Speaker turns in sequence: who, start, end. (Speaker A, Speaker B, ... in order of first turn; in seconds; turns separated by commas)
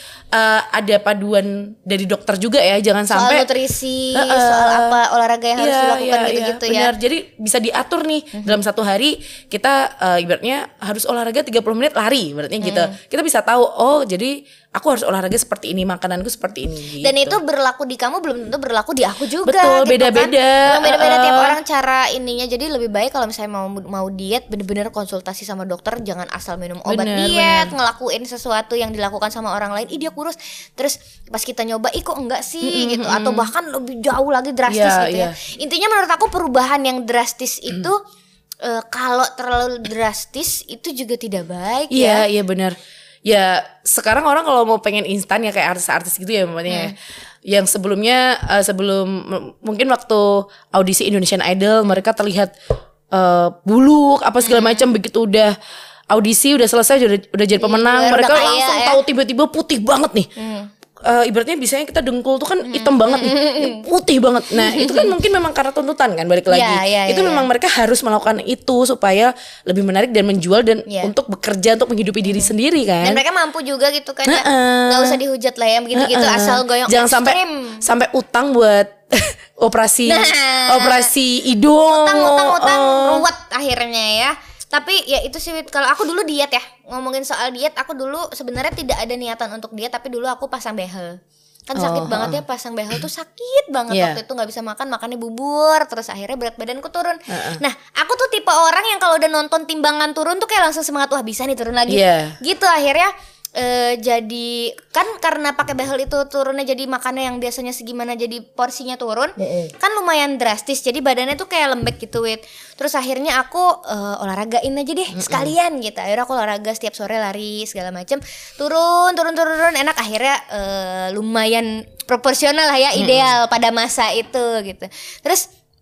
Speaker A: 0.3-3.5, Speaker B: 3.1-6.9, Speaker A: 4.2-5.0, Speaker A: 5.6-17.4, Speaker B: 12.6-12.9, Speaker B: 17.0-38.0, Speaker A: 19.4-21.6, Speaker A: 26.9-27.7, Speaker A: 32.6-33.5, Speaker A: 34.7-35.3, Speaker B: 38.6-42.3, Speaker A: 41.9-47.0, Speaker B: 46.7-46.9, Speaker A: 47.5-52.5, Speaker A: 53.1-55.5, Speaker B: 54.4-54.9, Speaker A: 56.1-60.3, Speaker B: 57.6-59.0, Speaker B: 60.4-60.7, Speaker A: 61.0-73.2, Speaker B: 62.6-63.9, Speaker B: 64.5-65.1, Speaker B: 66.5-67.5, Speaker B: 70.9-71.1, Speaker B: 72.2-77.9, Speaker A: 74.2-75.2, Speaker A: 75.9-83.3, Speaker B: 80.1-81.1, Speaker B: 81.9-125.5, Speaker A: 91.8-92.4, Speaker A: 93.9-94.2, Speaker A: 97.3-97.6, Speaker A: 101.9-102.4, Speaker A: 109.5-109.7, Speaker A: 115.1-115.5, Speaker A: 123.0-123.3